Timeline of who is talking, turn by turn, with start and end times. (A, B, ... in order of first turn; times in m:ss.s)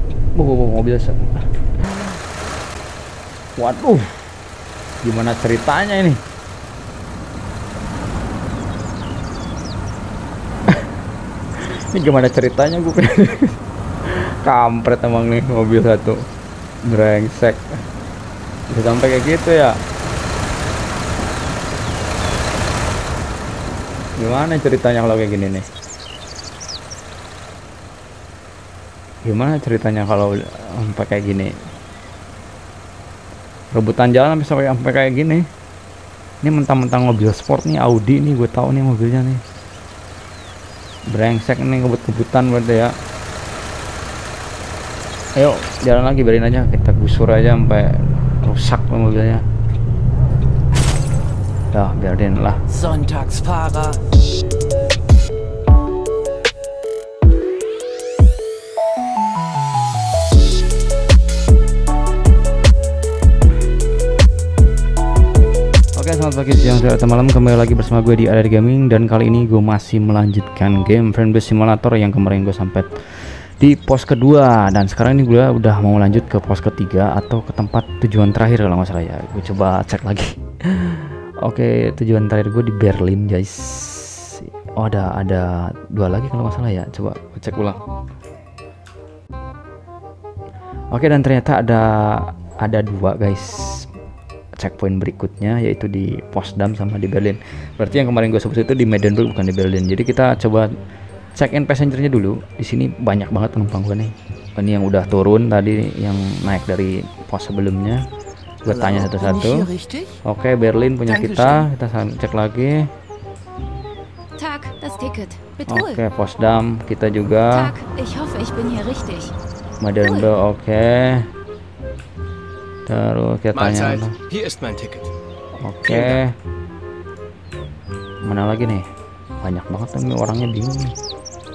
0:00.4-0:01.4 A
0:03.6-0:04.3 A
0:05.0-0:06.2 A
0:11.6-0:16.2 A
0:16.8-0:17.8 A
0:18.7-0:19.8 A
0:24.2-0:25.7 A
0:29.2-0:31.5 A
0:33.7-0:35.5 A
0:36.4-0:39.4 A
0:41.1-0:42.9 A
0:45.4-0:49.4 A
0:51.7-0:52.6 A
0:52.7-0:54.0 B
1:06.0-1:12.9 A
1:13.6-1:27.8 A
1:30.9-1:33.9 A
1:34.6-1:40.7 A
1:41.4-1:48.0 A
1:48.6-1:49.7 A
1:48.7-1:50.2 B
1:50.2-1:52.9 A
1:51.1-1:51.7 B
1:54.4-1:56.0 C
1:55.7-1:57.7 A
1:57.5-1:59.3 C
1:59.8-2:01.3 A
2:00.0-2:00.3 C
2:02.9-2:04.2 A
2:03.5-2:05.1 D
2:05.6-2:06.3 A
2:05.9-2:06.2 D
2:08.2-2:08.9 A
2:09.4-2:10.9 A